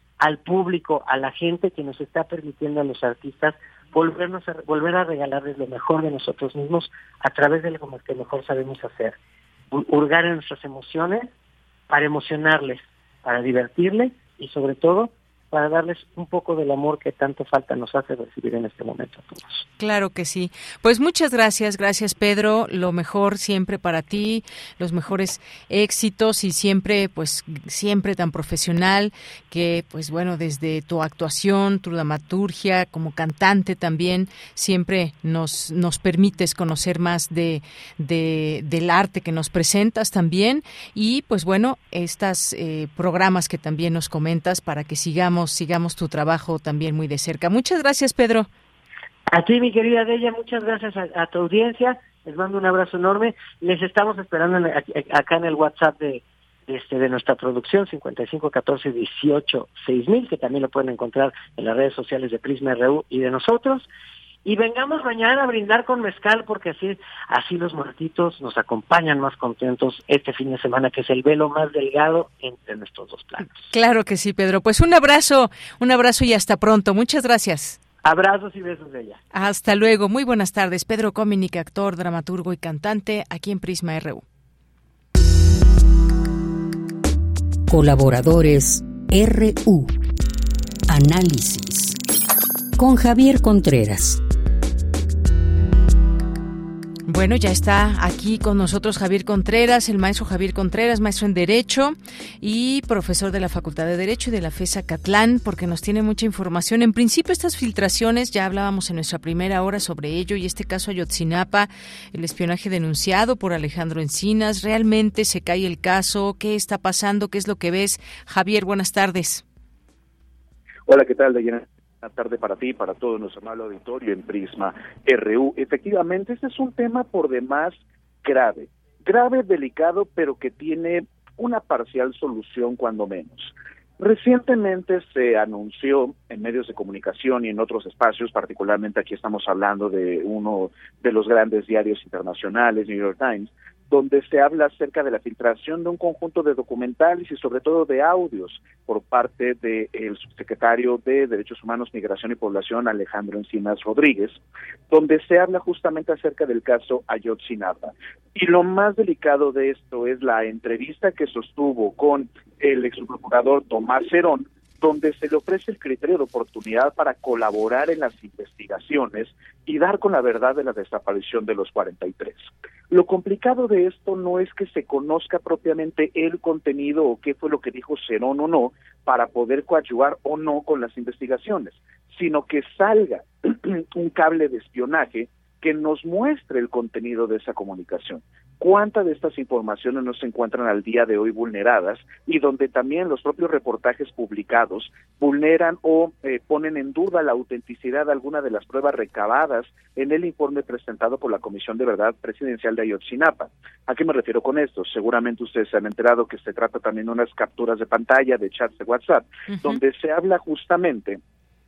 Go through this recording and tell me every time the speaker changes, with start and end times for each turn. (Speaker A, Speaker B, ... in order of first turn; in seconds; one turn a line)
Speaker A: 0.2-9.2
Speaker A: 9.7-11.3
Speaker A: 11.9-19.7
Speaker B: 19.8-48.5
Speaker A: 49.3-63.9
Speaker A: 64.5-73.7
Speaker B: 73.7-77.8
Speaker A: 78.0-79.2
Speaker B: 79.3-84.2
Speaker C: 87.7-89.9
Speaker C: 90.9-92.0
Speaker C: 92.8-94.2
Speaker B: 97.1-119.4
Speaker D: 120.9-211.2
Speaker B: 209.5-209.8